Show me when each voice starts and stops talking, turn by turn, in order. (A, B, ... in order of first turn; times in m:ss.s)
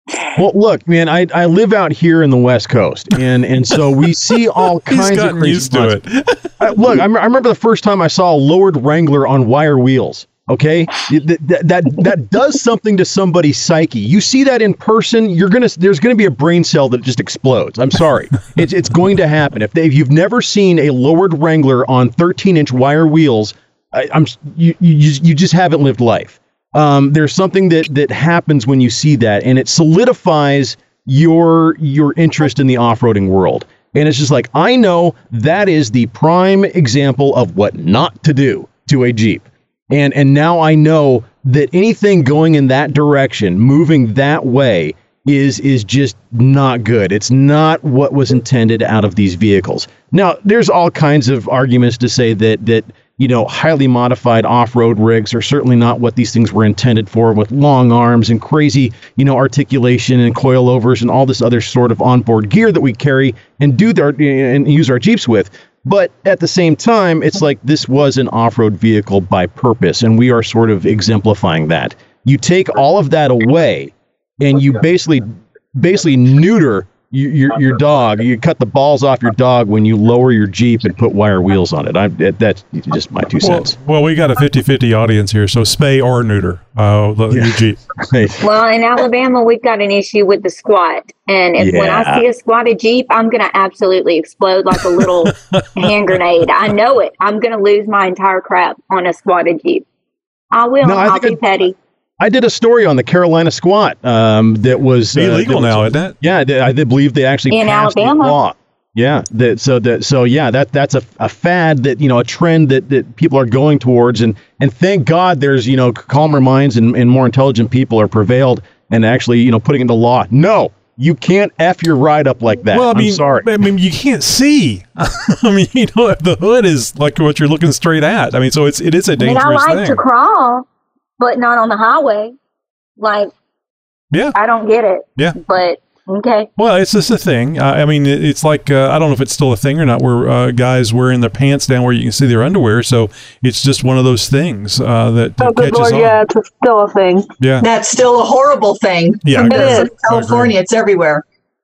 0:00.4-0:06.0 A
0:04.9-0:06.6 B
0:06.6-1:23.8 A
1:23.4-1:27.8 B
1:27.3-1:28.5 A
1:28.4-1:39.8 C
1:31.6-1:32.2 A
1:35.5-1:35.9 B
1:40.5-1:41.8 C
1:40.8-1:41.4 A
1:42.2-2:03.5 A
1:45.1-1:46.2 B
1:47.5-1:48.4 C
2:02.7-2:10.0 B
2:09.2-2:10.7 C
2:11.2-2:12.4 C
2:13.0-2:13.3 C
2:14.4-2:16.5 C
2:16.6-2:26.2 B
2:25.4-2:27.3 D
2:27.4-2:27.7 B
2:27.6-2:31.2 E
2:29.2-2:30.6 B
2:29.5-2:29.8 D